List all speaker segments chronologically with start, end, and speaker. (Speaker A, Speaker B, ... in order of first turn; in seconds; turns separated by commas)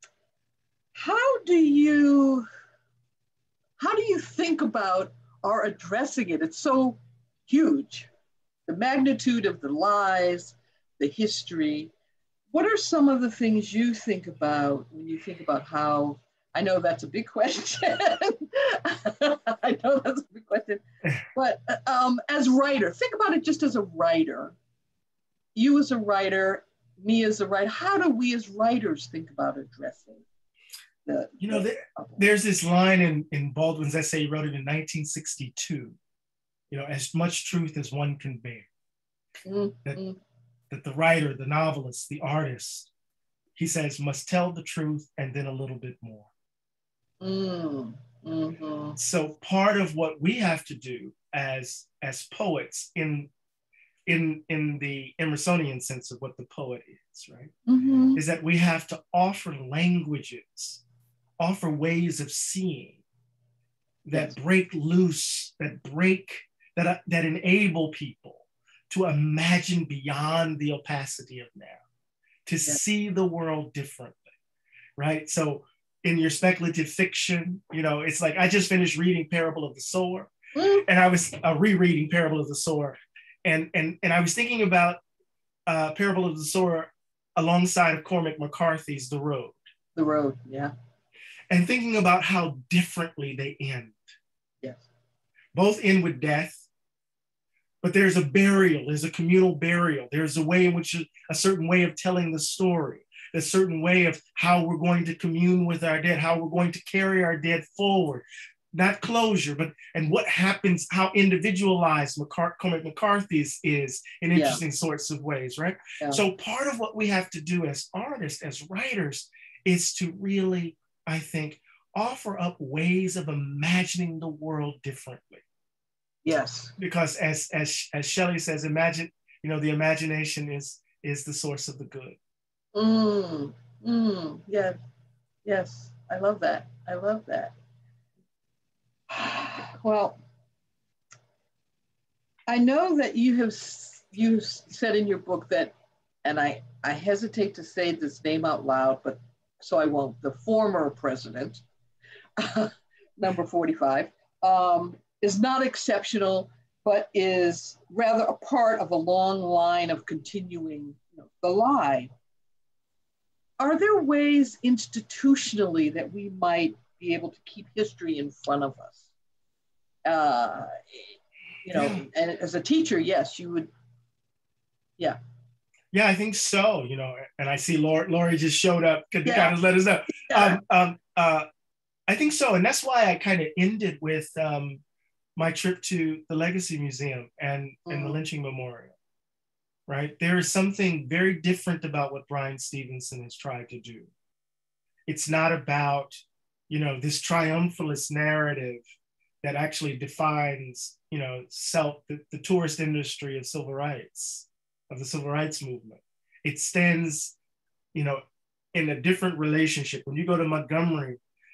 Speaker A: 0.9-2.4, Speaker A: 3.8-8.1, Speaker A: 8.7-11.9, Speaker A: 12.5-20.8, Speaker A: 21.3-24.5, Speaker A: 25.5-30.2, Speaker A: 31.1-32.2, Speaker B: 31.4-36.0, Speaker B: 36.7-38.7, Speaker A: 39.4-40.2, Speaker B: 40.7-42.9, Speaker B: 43.5-46.3, Speaker A: 47.2-49.0, Speaker B: 49.0-53.3, Speaker B: 54.0-57.5, Speaker A: 57.7-58.2, Speaker B: 58.1-60.8, Speaker B: 61.4-63.0, Speaker B: 64.0-71.8, Speaker B: 72.5-74.3, Speaker B: 75.0-80.3, Speaker A: 80.5-80.8, Speaker B: 80.8-85.0, Speaker B: 85.7-89.6, Speaker A: 90.0-90.7, Speaker B: 91.5-94.0, Speaker B: 95.5-96.6, Speaker B: 97.8-125.4, Speaker A: 114.3-114.6, Speaker A: 126.2-126.8, Speaker B: 126.8-132.2, Speaker A: 132.7-134.8, Speaker A: 135.4-137.5, Speaker A: 139.1-140.2, Speaker A: 142.5-145.7, Speaker A: 146.2-151.6, Speaker A: 152.4-162.1, Speaker A: 163.6-169.0, Speaker A: 170.0-171.1, Speaker A: 171.6-173.7, Speaker B: 171.7-172.1, Speaker B: 175.9-181.4, Speaker A: 179.2-179.5, Speaker A: 180.3-180.6, Speaker B: 182.1-184.8, Speaker B: 185.3-188.9, Speaker A: 187.9-188.2, Speaker B: 189.9-194.1, Speaker B: 195.1-198.8, Speaker B: 199.4-207.3, Speaker B: 207.9-208.2, Speaker B: 208.7-211.2